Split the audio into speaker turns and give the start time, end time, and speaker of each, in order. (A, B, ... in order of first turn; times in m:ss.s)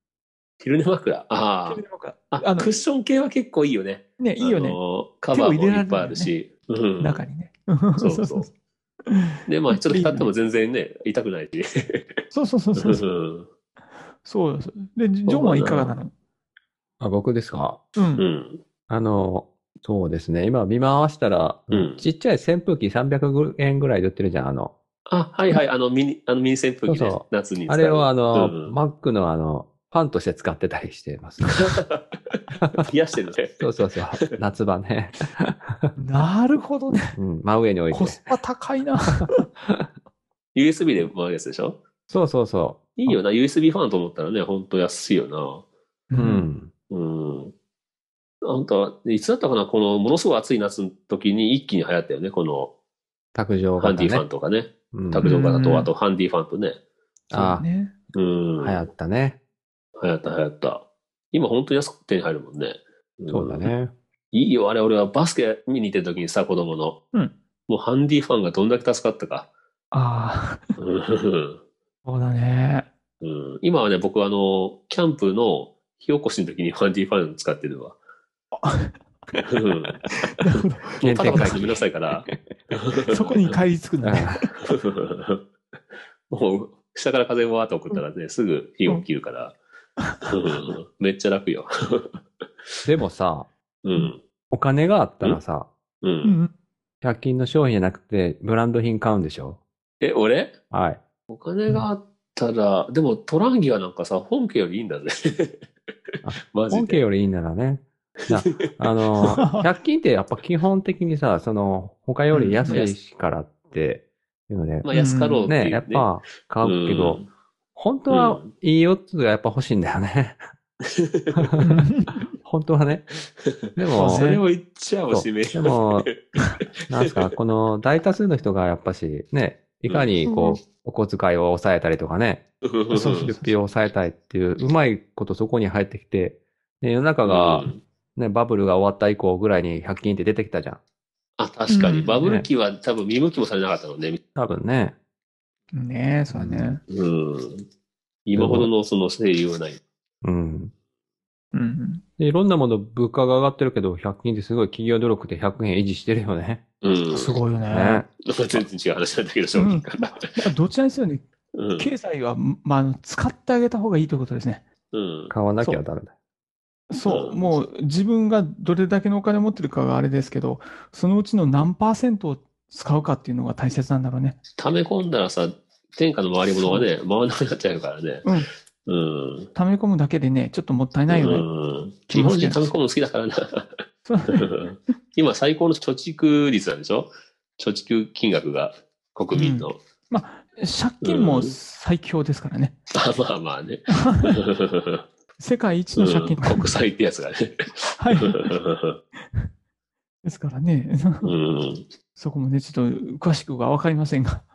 0:00.6-0:07.2 A
0:01.7-0:02.7 B
0:04.2-0:04.8 B
0:05.3-0:06.3 B
0:07.0-0:08.5 B
0:08.0-0:08.5 A
0:09.0-0:10.3 B
0:09.4-0:12.1 A
0:12.3-0:13.0 B
0:12.8-0:13.5 A
0:14.2-0:16.1 B
0:15.2-0:15.9 A
0:17.0-0:17.8 C
0:18.0-0:18.2 B
0:18.2-0:18.6 A
0:18.9-0:24.7 C
0:21.7-0:22.0 A
0:25.1-0:28.8 A
0:26.9-0:31.5 C
0:31.6-0:34.3 A
0:33.6-0:35.9 C
0:36.0-0:37.1 B
0:37.1-0:38.3 C
0:37.9-0:39.4 B
0:39.2-0:39.9 C
0:40.5-0:41.8 A
0:42.1-0:43.2 C
0:43.0-0:45.6 A
0:46.1-0:46.5 B
0:46.1-0:46.7 C
0:46.9-0:47.5 A
0:48.4-0:52.7 A
0:53.3-0:54.2 C
0:53.8-0:56.8 A
0:54.9-0:55.3 C
0:55.2-0:55.9 B
0:57.3-0:57.6 C
0:57.3-0:57.9 B
0:58.1-0:58.8 A
0:58.6-0:59.4 C
1:00.0-1:03.7 A
1:03.3-1:03.9 C
1:04.3-1:07.0 A
1:07.7-1:09.5 A
1:09.9-1:10.6 B
1:10.8-1:11.6 A
1:12.0-1:12.9 B
1:13.2-1:17.9 A
1:18.5-1:19.4 B
1:19.5-1:20.0 A
1:20.2-1:21.6 B
1:20.6-1:23.5 A
1:21.0-1:22.3 C
1:23.1-1:24.5 B
1:24.0-1:24.5 C
1:24.6-1:25.4 A
1:26.3-1:29.6 A
1:30.0-1:30.3 B
1:30.2-1:32.2 A
1:32.8-1:33.5 C
1:33.8-1:34.2 A
1:34.5-1:35.7 C
1:36.0-1:36.4 A
1:36.2-1:36.5 B
1:37.0-1:39.6 C
1:40.0-1:40.5 A
1:40.7-1:41.0 C
1:41.3-1:45.7 A
1:46.2-1:54.9 C
1:46.5-1:47.0 A
1:48.3-1:48.7 A
1:49.2-1:49.7 B
1:52.3-1:52.8 B
1:52.6-1:52.9 A
1:54.8-1:56.1 A
1:54.9-1:55.5 B
1:55.5-1:57.2 C
1:56.6-1:57.3 A
1:57.8-2:00.4 C
1:58.1-1:58.5 A
2:00.9-2:01.5 A
2:01.4-2:01.6 C
2:01.6-2:02.3 B
2:02.4-2:03.1 C
2:03.4-2:06.3 A
2:03.7-2:04.2 C
2:03.9-2:04.4 B
2:05.1-2:06.1 C
2:06.9-2:12.4 C
2:06.9-2:07.2 A
2:10.2-2:10.6 B
2:12.6-2:13.3 A
2:12.9-2:13.5 B
2:13.2-2:20.8 C
2:17.2-2:17.8 A
2:21.4-2:24.2 A
2:21.7-2:22.3 B
2:24.3-2:24.9 C
2:25.7-2:26.8 B
2:26.3-2:26.8 C
2:26.9-2:27.7 A
2:28.2-2:29.8 A
2:28.3-2:28.7 C
2:30.2-2:30.7 C
2:31.5-2:32.0 B
2:32.2-2:36.6 C
2:36.8-2:37.4 A
2:37.1-2:38.0 B
2:37.7-2:38.1 C
2:38.2-2:40.3 A
2:39.6-2:41.2 B
2:41.5-2:41.9 A
2:41.8-2:44.6 B
2:44.9-2:45.3 A
2:45.3-2:46.1 C
2:46.9-2:54.4 B
2:47.0-2:47.5 A
2:54.6-2:58.2 A
2:56.6-2:56.9 B
2:58.8-2:59.5 A
2:59.5-3:01.4 B
3:01.1-3:09.8 A
3:02.1-3:02.7 B
3:04.1-3:04.5 B
3:09.3-3:12.7 B
3:11.0-3:11.6 A
3:12.9-3:15.0 A
3:14.0-3:14.3 B
3:15.4-3:16.7 B
3:16.0-3:19.0 A
3:18.0-3:18.5 B
3:20.2-3:21.3 B
3:21.2-3:21.8 A
3:22.2-3:24.4 B